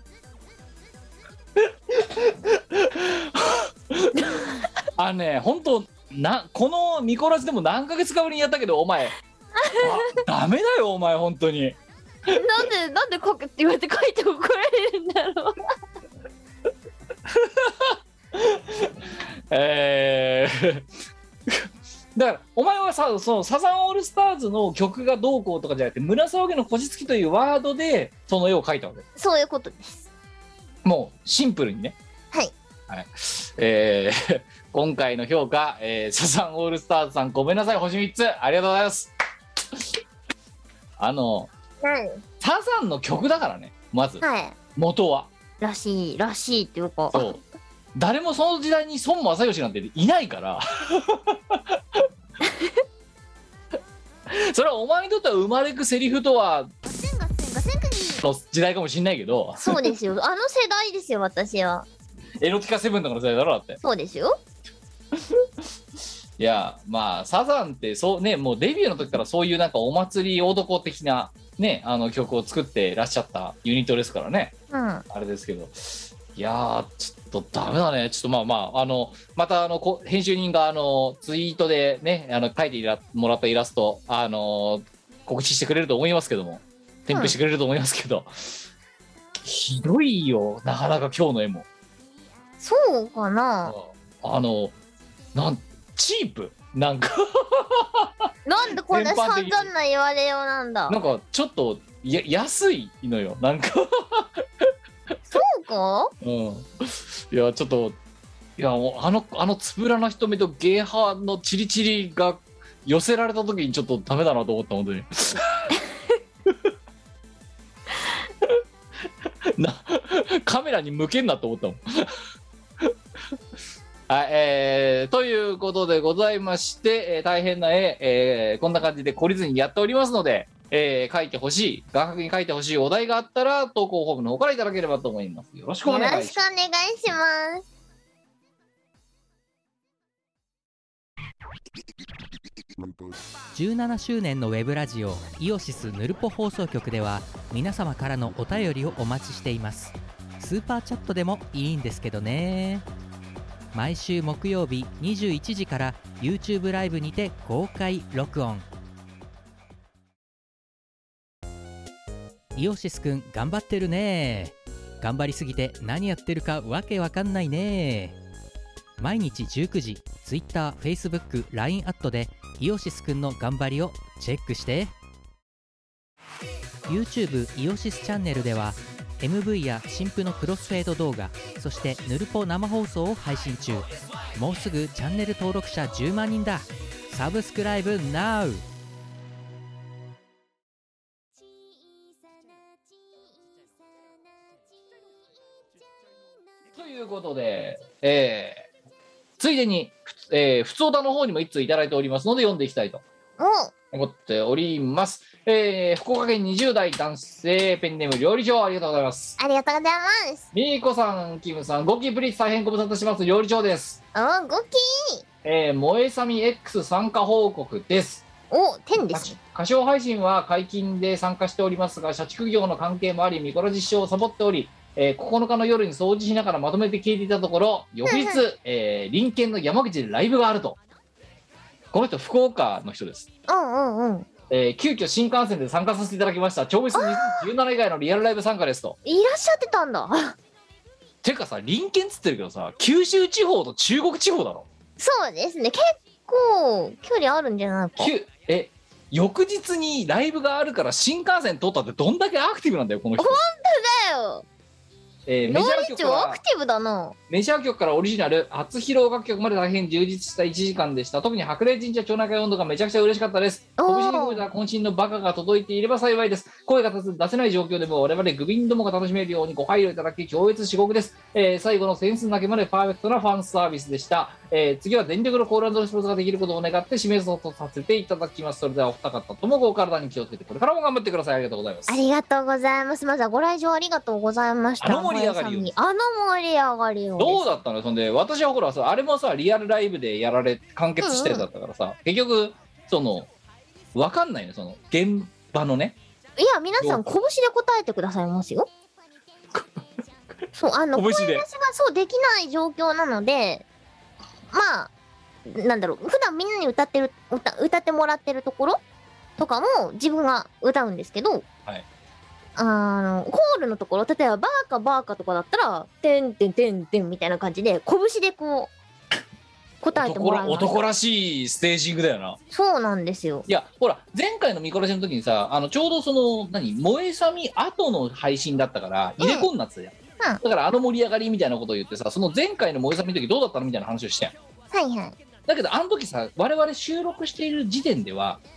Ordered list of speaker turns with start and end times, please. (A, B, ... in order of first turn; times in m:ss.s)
0:01.6-0:04.4 A
0:05.0-0:09.2 A
0:09.6-0:10.2 B
0:09.8-0:11.8 A
0:12.3-0:15.6 B
0:17.3-0:20.9 A
0:21.5-0:29.0 A
0:29.2-0:30.1 B
0:30.8-0:32.0 A
0:32.9-0:39.1 A
0:41.0-0:41.5 A
0:41.8-0:42.2 B
0:42.4-0:44.2 A
0:44.2-0:44.6 B
0:44.8-0:45.3 A
0:45.6-0:47.3 B
0:47.1-0:47.4 A
0:48.0-0:52.0 A
0:52.4-0:52.7 B
0:54.3-0:56.7 A
0:56.8-0:58.2 B
0:58.2-1:00.0 A
0:59.6-1:01.9 B
1:02.4-1:03.8 A
1:03.8-1:04.4 B
1:05.1-1:05.5 A
1:06.4-1:14.5 A
1:14.7-1:15.0 B
1:15.1-1:28.6 A
1:29.4-1:31.7 A
1:32.6-1:33.8 B
1:33.6-1:34.8 A
1:35.3-1:38.3 A
1:38.5-1:41.0 B
1:38.8-1:39.7 A
1:40.9-1:44.7 A
1:45.3-1:46.1 B
1:46.2-1:48.0 A
1:48.6-1:55.7 A
1:56.5-1:56.7 A
1:59.4-2:02.1 A
2:04.1-2:16.4 A
2:15.8-2:17.6 B
2:23.5-2:32.8 C
2:33.7-2:38.7 C
2:42.6-2:48.2 C
2:49.0-2:54.9 C
2:56.9-3:08.6 C
3:16.7-3:18.7 A
3:19.4-3:23.0 A
3:23.4-3:23.7 B
3:23.9-3:29.4 A
3:29.4-3:30.5 B
3:30.5-3:34.0 A
3:34.1-3:35.2 B
3:35.4-3:38.3 A
3:38.5-3:39.4 B
3:39.1-3:50.8 A
3:48.0-3:48.4 B
3:51.9-3:53.3 A
3:53.5-3:54.3 B
3:54.5-3:59.0 A
3:56.9-3:57.5 B
3:59.0-4:00.4 B
4:01.2-4:04.7 A
4:05.0-4:08.1 B
4:08.0-4:13.4 A
4:13.2-4:14.4 B
4:15.3-4:16.4 A
4:15.5-4:17.2 B
4:17.3-4:42.0 A
4:23.8-4:24.4 B
4:41.9-4:47.4 B
4:44.8-4:45.7 A
4:47.2-4:53.3 A
4:51.0-4:51.5 B
4:53.9-4:56.0 A
4:56.4-4:58.7 B
4:56.8-4:57.0 A
4:59.5-4:59.8 A
5:00.5-5:03.7 B
5:01.0-5:01.5 A
5:04.5-5:04.9 B
5:05.5-5:08.8 B
5:09.4-5:11.5 B
5:12.6-5:18.7 B
5:19.8-5:20.8 B
5:19.9-5:22.4 A
5:22.5-5:23.5 B
5:23.5-5:34.4 A
5:29.2-5:29.5 B
5:34.7-5:35.2 B
5:35.5-5:38.4 A